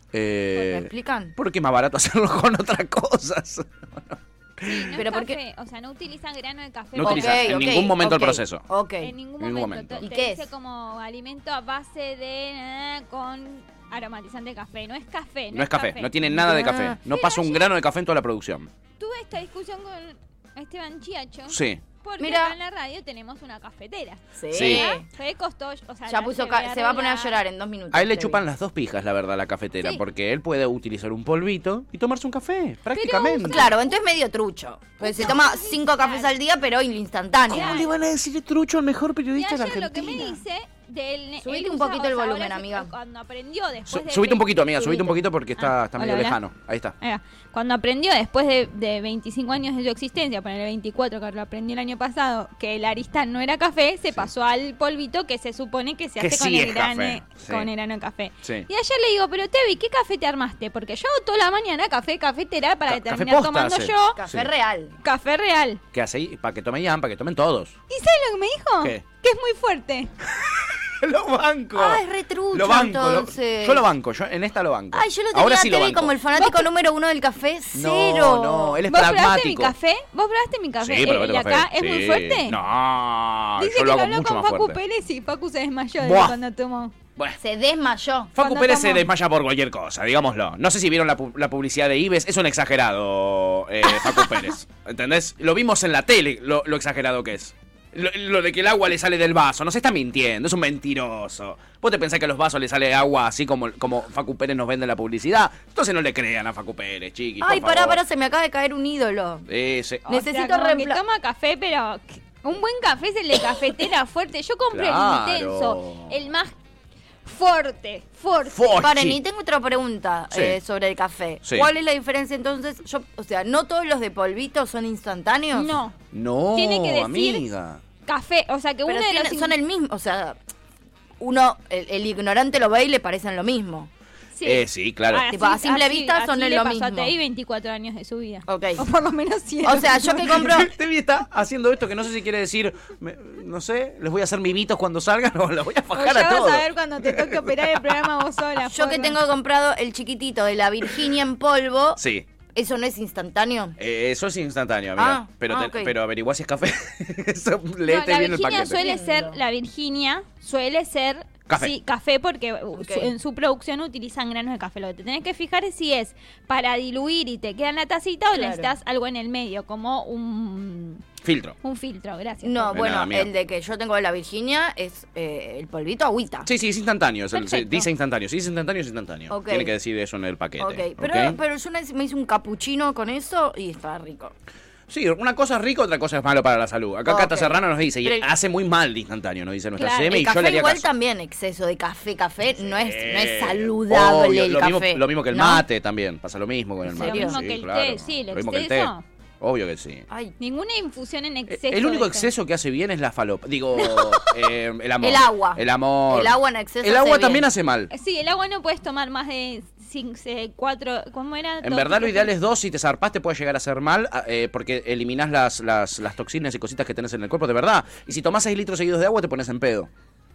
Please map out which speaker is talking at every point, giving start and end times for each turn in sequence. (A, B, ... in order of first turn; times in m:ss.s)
0:00.1-0:04.9 A
0:00.5-0:01.3 B
0:04.6-0:07.5 C
0:05.0-0:05.4 B
0:06.9-0:08.6 A
0:07.0-0:09.1 B
0:09.0-0:16.1 C
0:09.4-0:10.0 A
0:10.0-0:10.4 B
0:15.5-0:18.7 A
0:16.3-0:17.0 B
0:17.0-0:17.7 C
0:19.0-0:27.4 C
0:21.5-0:21.8 A
0:22.2-0:22.6 B
0:24.4-0:25.0 B
0:24.5-0:24.8 A
0:26.1-0:28.4 B
0:27.9-0:33.7 A
0:32.9-0:34.0 C
0:33.4-0:37.8 B
0:35.0-0:36.3 C
0:37.5-0:40.4 A
0:37.5-0:37.9 C
0:39.4-0:46.4 C
0:41.4-0:42.9 B
0:43.9-0:46.9 A
0:47.0-1:04.2 C
0:56.2-0:57.7 A
1:02.9-1:04.5 A
1:04.1-1:04.9 B
1:05.0-1:05.8 C
1:05.9-1:07.8 A
1:07.9-1:10.1 C
1:10.3-1:16.2 A
1:11.7-1:13.8 B
1:14.9-1:18.8 B
1:16.3-1:16.7 C
1:17.7-1:19.7 A
1:18.9-1:22.6 C
1:20.8-1:24.8 A
1:23.6-1:26.9 C
1:26.0-1:26.4 A
1:27.4-1:28.3 B
1:28.3-1:48.0 A
1:28.4-1:29.1 C
1:47.4-1:49.4 B
1:49.5-1:50.0 A
1:50.1-1:51.0 B
1:50.1-1:56.5 C
1:54.7-1:56.2 A
1:57.2-1:58.8 C
1:58.5-1:59.2 A
1:58.7-2:05.7 B
2:00.3-2:00.6 A
2:05.5-2:06.0 C
2:06.1-2:07.8 A
2:06.5-2:07.5 C
2:08.0-2:09.6 C
2:08.8-2:10.4 B
2:11.2-2:13.9 B
2:14.4-2:20.5 C
2:14.4-2:15.3 A
2:15.3-2:17.1 B
2:18.5-2:18.8 B
2:19.6-2:20.7 B
2:20.4-2:28.0 A
2:25.9-2:29.2 C
2:28.7-2:32.0 B
2:32.0-2:32.3 A
2:32.5-2:33.8 B
2:33.8-2:38.8 A
2:35.0-2:35.9 B
2:37.9-2:51.0 C
2:38.8-2:39.4 B
2:41.5-2:41.7 A
2:42.7-2:43.1 B
2:48.3-2:48.7 B
2:51.2-2:51.6 A
2:51.6-2:52.8 C
2:52.4-2:56.5 B
2:52.7-2:53.3 A
2:56.4-3:01.4 A
2:57.3-2:57.9 C
2:59.3-2:59.7 B
3:00.6-3:04.3 B
3:04.9-3:10.9 A
3:07.0-3:08.3 B
3:09.8-3:10.1 C
3:10.1-3:15.6 B
3:12.6-3:20.0 A
3:16.8-3:17.4 B
3:17.0-3:19.0 C
3:20.1-3:20.3 B
3:20.4-3:22.3 C
3:21.5-3:27.9 A
3:25.0-3:27.5 B
3:27.9-3:32.3 C
3:31.6-3:39.9 A